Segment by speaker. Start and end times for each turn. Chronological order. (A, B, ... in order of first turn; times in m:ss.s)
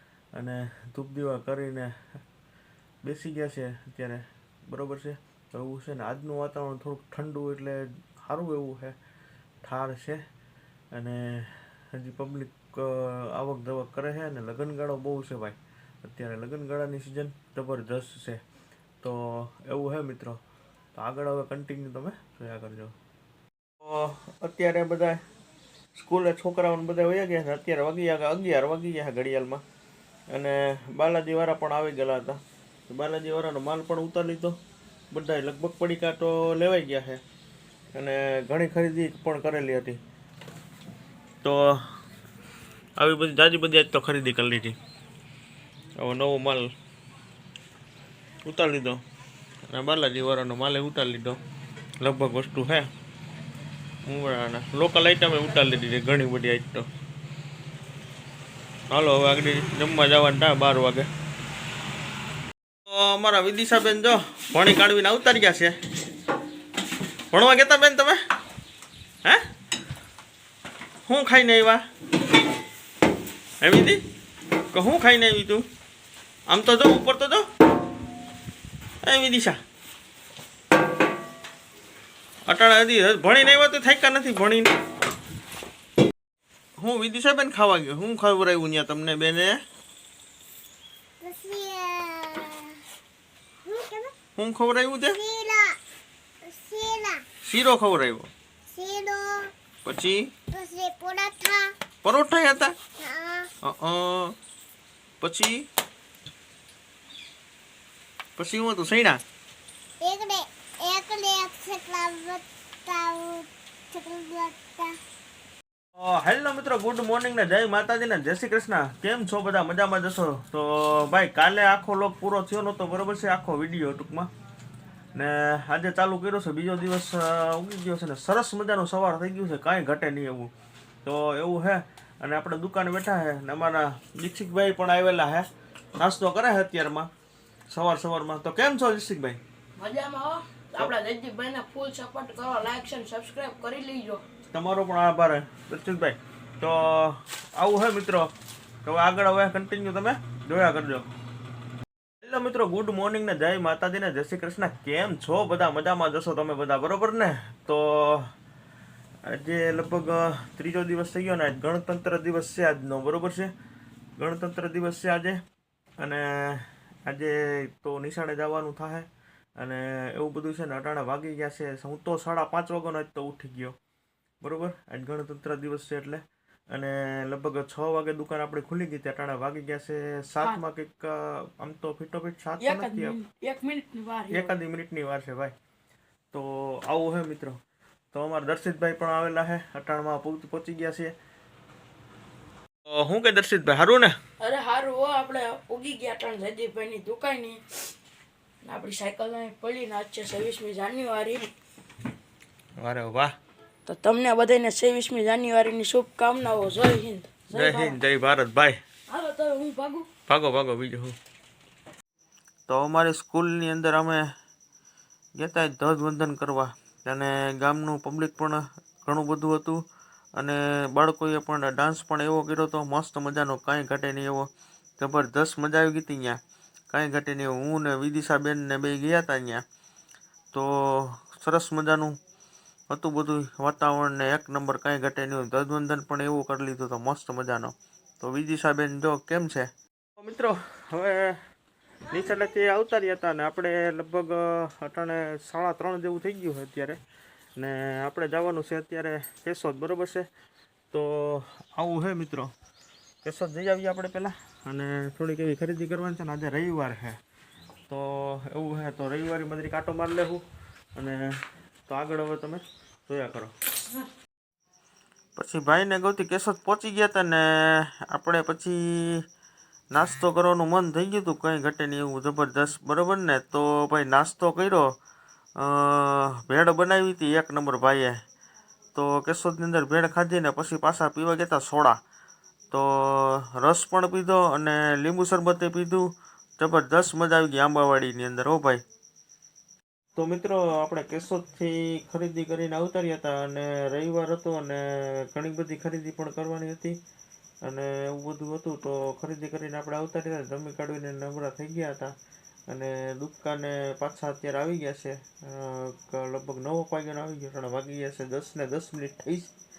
0:00.3-0:02.0 A
0:03.0-0:09.0 A
0:09.6-0:10.2 A
0:10.9-0:18.4 A
0:19.0-0:20.4 A
0:20.9-0:22.9 A
0:23.8-0:25.2 A
0:25.9-0:29.6 A
0:30.3-0:34.6 A
0:35.1-0:37.2 A
0:37.9-0:40.0 A
0:41.4-0:41.8 A
0:43.0-0:44.8 A
0:46.0-0:46.7 A
0:48.4-0:49.0 A
0:49.7-0:51.4 A
0:52.0-0:52.9 A
0:54.0-0:56.9 A
0:58.9-1:01.1 A
1:02.9-1:05.8 A
1:07.3-1:08.2 A
1:11.1-1:11.8 A
1:13.6-1:14.0 A
1:14.7-1:15.7 A
1:16.5-1:17.5 A
1:19.0-1:19.6 A
1:22.5-1:24.7 A
1:26.8-1:29.6 A
1:31.2-1:32.8 B
1:33.6-1:34.1 B
1:34.4-1:35.2 A
1:35.1-1:35.8 B
1:36.4-1:37.2 B
1:37.4-1:38.3 A
1:38.7-1:39.5 B
1:39.8-1:40.3 A
1:40.5-1:41.7 B
1:42.0-1:42.7 A
1:43.0-1:43.5 B
1:43.6-1:44.4 A
1:45.2-1:45.6 A
1:48.4-1:49.2 A
1:50.0-1:55.0 B
1:56.0-2:04.3 A
2:05.1-2:10.5 A
2:11.0-2:17.1 A
2:17.7-2:19.4 A
2:19.8-2:24.2 C
2:24.5-2:28.3 A
2:28.8-2:31.1 A
2:32.2-2:38.3 A
2:39.2-2:43.5 A
2:44.2-2:45.4 A
2:46.0-2:53.8 A
2:54.4-3:03.2 A
3:02.6-3:04.5 C
3:04.3-3:05.5 A
3:06.3-3:07.6 A
3:08.1-3:11.1 A
3:12.8-3:14.2 A
3:14.4-3:17.9 C
3:18.6-3:21.5 C
3:22.8-3:23.3 A
3:23.8-3:28.0 C
3:27.5-3:28.8 A
3:29.1-3:30.1 C
3:30.3-3:31.2 A
3:32.7-3:34.3 A
3:35.4-3:39.8 A
3:40.4-3:46.4 A
3:46.9-3:49.6 A
3:50.5-3:52.2 A
3:52.9-4:01.4 A
4:02.1-4:07.0 A
4:07.6-4:10.3 A
4:10.9-4:12.5 A
4:13.2-4:17.2 A
4:17.9-4:20.4 A
4:21.0-4:23.5 A
4:25.4-4:29.2 A
4:29.9-4:34.9 A
4:35.6-4:38.2 A
4:38.9-4:42.0 A
4:42.7-4:46.1 A
4:46.6-4:48.8 A
4:50.2-4:57.0 A
4:57.6-5:02.1 A
5:02.7-5:09.5 A